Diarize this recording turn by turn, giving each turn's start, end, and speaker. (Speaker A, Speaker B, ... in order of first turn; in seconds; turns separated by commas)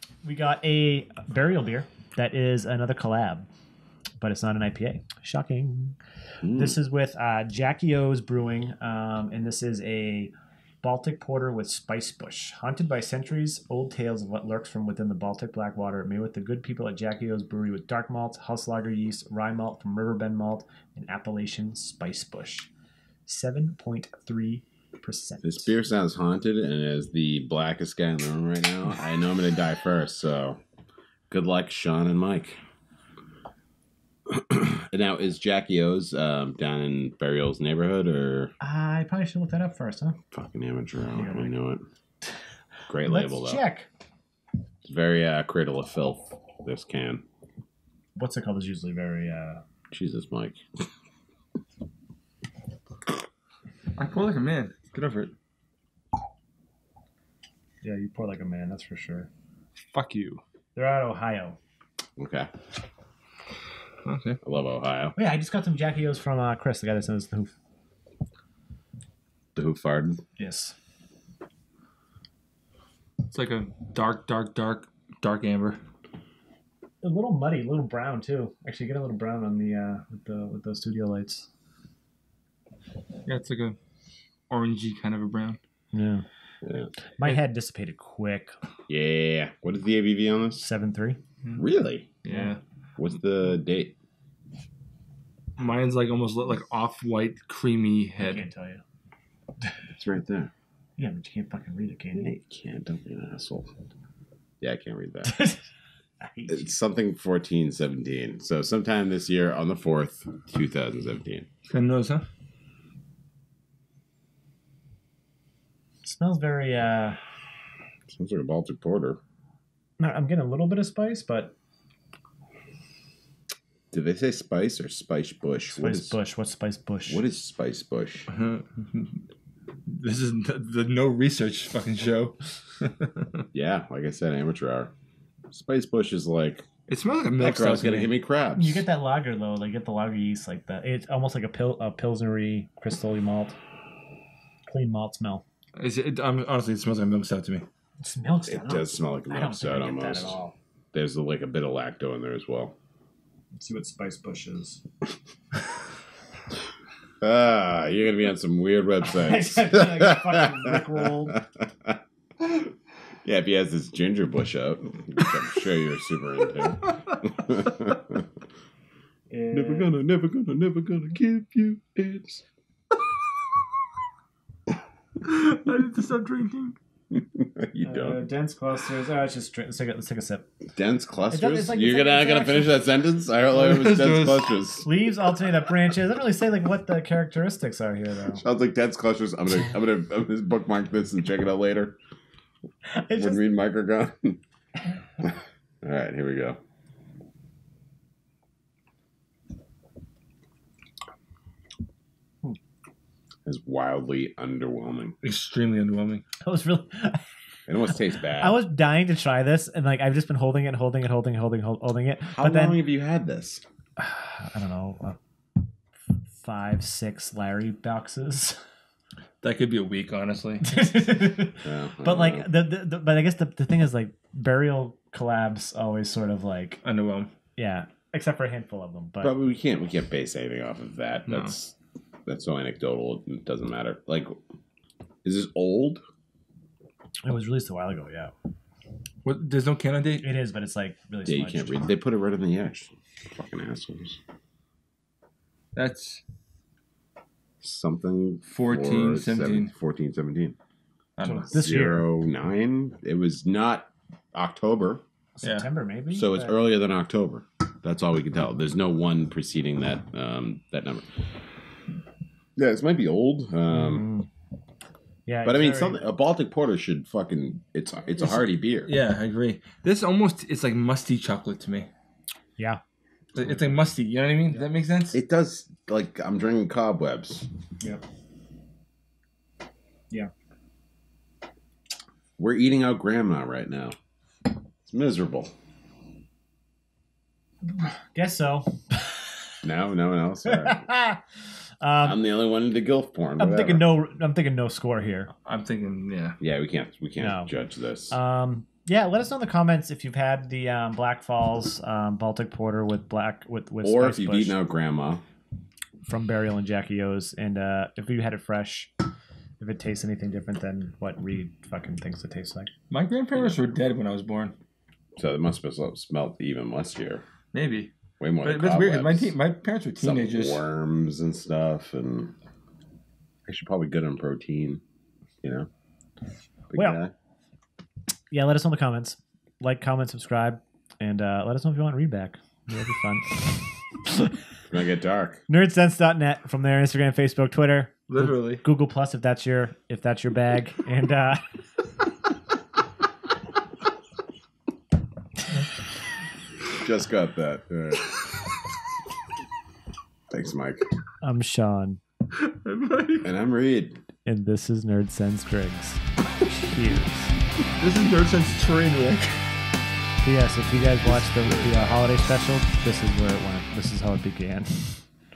Speaker A: 0.2-3.5, Speaker A: 4.2-6.0, Speaker B: 6.4-6.8, Speaker A: 6.5-10.3, Speaker A: 10.8-22.7, Speaker A: 23.2-25.7, Speaker B: 25.4-30.6, Speaker B: 31.3-32.6, Speaker B: 34.3-38.5, Speaker A: 38.6-40.2, Speaker B: 40.3-41.8, Speaker A: 41.1-41.5, Speaker B: 42.9-43.6, Speaker A: 43.0-43.9, Speaker B: 44.9-47.2, Speaker A: 48.1-49.6, Speaker B: 49.9-50.6, Speaker C: 54.0-55.3, Speaker A: 57.8-59.3, Speaker C: 59.9-60.4, Speaker A: 60.7-61.6, Speaker B: 62.2-62.5, Speaker C: 64.0-64.4, Speaker B: 64.4-65.1, Speaker A: 65.2-67.5, Speaker B: 69.5-70.2, Speaker A: 70.4-70.7, Speaker C: 73.3-75.8, Speaker A: 77.0-81.5, Speaker C: 83.2-83.8, Speaker C: 84.5-85.6, Speaker A: 85.9-86.2, Speaker B: 86.6-86.9, Speaker A: 87.2-88.5, Speaker B: 88.9-90.6, Speaker A: 90.6-91.2, Speaker B: 91.5-92.1, Speaker C: 92.2-92.6, Speaker B: 93.0-94.0, Speaker C: 95.6-98.4, Speaker A: 98.2-98.8, Speaker B: 100.0-100.5, Speaker A: 101.0-102.3, Speaker B: 102.1-103.7, Speaker B: 104.6-105.3, Speaker A: 105.2-105.6, Speaker A: 106.2-106.7, Speaker B: 106.5-111.5, Speaker C: 111.7-112.3, Speaker A: 116.0-117.2, Speaker B: 118.1-119.2, Speaker A: 120.0-121.5, Speaker B: 123.9-126.2, Speaker A: 125.7-127.2, Speaker B: 127.1-128.3, Speaker C: 128.3-129.2, Speaker C: 129.8-133.4, Speaker B: 133.5-134.9, Speaker B: 135.5-136.7, Speaker C: 136.9-138.1, Speaker B: 137.4-138.8, Speaker A: 138.5-143.6, Speaker A: 144.7-145.4, Speaker C: 145.8-147.6, Speaker A: 148.0-150.5, Speaker B: 148.5-150.4, Speaker B: 150.9-152.7, Speaker A: 153.5-154.8, Speaker B: 157.2-162.6, Speaker A: 159.1-161.4, Speaker B: 163.2-168.2, Speaker C: 166.9-167.2, Speaker A: 169.3-169.9, Speaker B: 169.5-172.4, Speaker C: 175.2-176.8, Speaker B: 177.1-178.3, Speaker A: 177.8-180.5, Speaker B: 180.8-184.9, Speaker A: 181.3-182.8, Speaker C: 183.5-184.6, Speaker A: 184.8-188.4, Speaker B: 188.3-192.0, Speaker A: 192.9-193.4, Speaker B: 193.1-194.4, Speaker B: 195.2-196.6, Speaker B: 203.4-205.1, Speaker C: 205.2-206.2, Speaker A: 206.4-207.2, Speaker B: 207.7-208.6, Speaker A: 208.2-212.8, Speaker B: 212.3-213.6, Speaker A: 214.0-215.2, Speaker A: 216.1-218.6, Speaker C: 219.4-220.8, Speaker A: 220.6-226.8, Speaker B: 221.6-222.5, Speaker C: 226.8-227.3, Speaker A: 227.6-229.3, Speaker B: 229.2-231.7, Speaker C: 231.3-231.5, Speaker B: 232.2-234.4, Speaker B: 235.2-236.0, Speaker A: 237.2-238.3, Speaker C: 239.2-240.2, Speaker A: 240.2-241.9, Speaker B: 241.2-244.2, Speaker C: 245.7-246.2, Speaker B: 247.6-250.6, Speaker C: 248.4-249.7, Speaker C: 251.2-251.5, Speaker A: 251.2-252.1, Speaker B: 251.5-255.0, Speaker A: 255.4-256.6, Speaker B: 256.1-261.1, Speaker B: 262.6-264.1, Speaker A: 263.7-264.3, Speaker A: 265.2-266.0, Speaker B: 265.4-268.9, Speaker C: 268.3-271.9, Speaker C: 273.3-275.2, Speaker B: 275.1-277.5, Speaker B: 282.4-283.9, Speaker B: 284.8-285.5, Speaker A: 287.6-289.2, Speaker B: 289.6-290.8, Speaker A: 290.4-291.2, Speaker A: 291.8-292.2, Speaker B: 292.0-293.9, Speaker A: 293.4-295.3, Speaker C: 295.4-296.4, Speaker B: 296.4-298.2, Speaker A: 297.2-297.5, Speaker A: 298.1-304.6, Speaker B: 303.8-305.2, Speaker A: 306.0-308.9, Speaker A: 309.6-312.7, Speaker C: 312.9-314.6, Speaker B: 315.2-317.2, Speaker C: 317.5-320.6, Speaker B: 318.2-319.3, Speaker B: 320.0-322.3, Speaker B: 323.5-324.8, Speaker B: 325.4-325.7, Speaker B: 326.7-327.1, Speaker A: 326.7-327.0, Speaker A: 328.3-334.4, Speaker B: 334.7-335.4, Speaker A: 335.5-341.4, Speaker C: 338.1-338.6, Speaker B: 346.7-348.2, Speaker B: 350.3-350.9, Speaker A: 351.2-352.0, Speaker C: 352.3-353.3, Speaker B: 353.2-354.0, Speaker A: 354.2-357.4, Speaker C: 357.7-359.5, Speaker A: 360.2-365.1, Speaker B: 361.0-362.1